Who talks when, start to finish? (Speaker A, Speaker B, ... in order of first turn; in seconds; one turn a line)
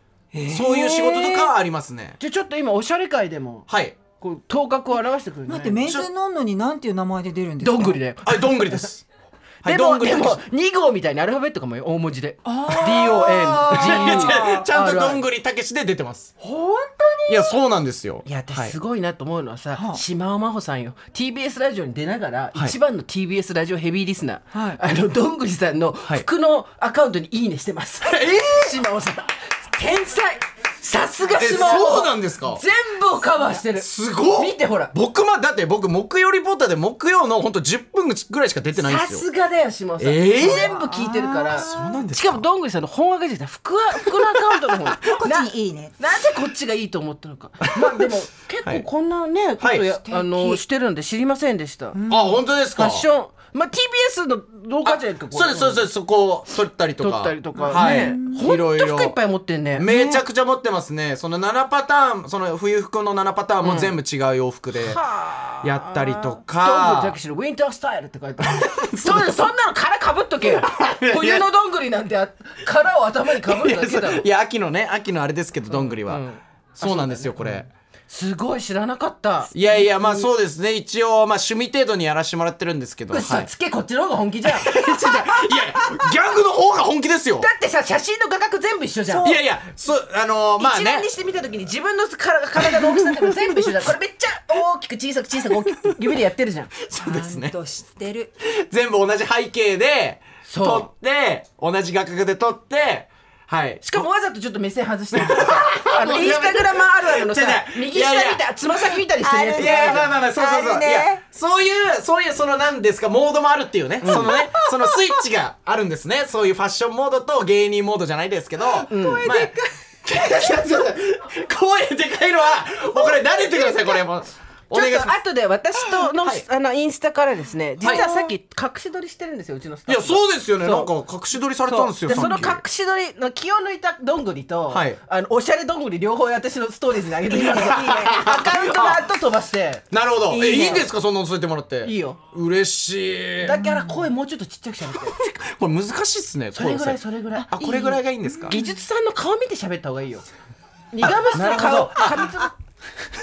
Speaker A: 0.3-1.5
Speaker B: 0.5-2.2
Speaker C: 2.2-5.9
Speaker B: 3.7-4.0
Speaker A: 5.5-8.0
Speaker C: 7.6-8.9
Speaker B: 8.2-9.1
Speaker B: 9.6-10.4
Speaker C: 9.6-15.2
Speaker A: 12.4-14.7
Speaker B: 13.3-16.3
Speaker A: 16.4-17.6
Speaker B: 17.3-18.8
Speaker C: 18.2-34.9
Speaker A: 19.8-20.0
Speaker A: 24.5-24.8
Speaker B: 28.0-28.8
Speaker B: 31.3-32.6
Speaker B: 33.8-39.3
Speaker C: 38.8-52.0
Speaker B: 40.0-40.8
Speaker A: 40.4-42.0
Speaker B: 41.5-42.5
Speaker A: 45.0-46.0
Speaker B: 47.8-48.1
Speaker B: 49.6-49.9
Speaker A: 50.0-50.6
Speaker A: 51.9-52.4
Speaker B: 52.1-53.0
Speaker C: 52.7-55.9
Speaker B: 54.8-59.2
Speaker C: 57.0-59.9
Speaker A: 57.6-58.5
Speaker B: 59.7-65.0
Speaker A: 59.9-60.2
Speaker C: 63.6-64.0
Speaker C: 64.8-74.2
Speaker B: 65.6-67.2
Speaker B: 68.4-69.3
Speaker B: 70.4-71.5
Speaker B: 73.4-76.2
Speaker C: 75.7-80.3
Speaker B: 76.8-77.7
Speaker B: 79.5-83.5
Speaker C: 83.1-85.7
Speaker B: 84.5-87.5
Speaker C: 87.4-89.4
Speaker A: 89.1-89.4
Speaker B: 89.2-91.1
Speaker C: 90.6-96.7
Speaker B: 96.9-97.5
Speaker A: 97.0-98.3
Speaker B: 98.6-103.9
Speaker C: 100.5-100.9
Speaker C: 103.8-110.2
Speaker B: 105.2-108.9
Speaker A: 109.2-111.2
Speaker B: 109.5-119.5
Speaker C: 114.0-114.3
Speaker A: 114.0-115.1
Speaker A: 118.9-120.7
Speaker C: 118.9-119.3
Speaker B: 120.0-125.2
Speaker A: 123.0-124.0
Speaker C: 124.7-130.9
Speaker B: 125.8-126.5
Speaker A: 127.8-128.3
Speaker B: 129.9-132.6
Speaker C: 131.6-140.9
Speaker A: 132.1-132.5
Speaker B: 134.7-135.0
Speaker B: 137.3-139.1
Speaker A: 137.4-138.1
Speaker B: 139.9-143.6
Speaker A: 140.4-140.8
Speaker C: 141.8-142.2
Speaker C: 143.4-145.2
Speaker A: 143.6-144.0
Speaker B: 145.0-148.6
Speaker C: 146.5-150.3
Speaker A: 148.3-148.6
Speaker C: 150.9-152.6
Speaker B: 151.0-152.5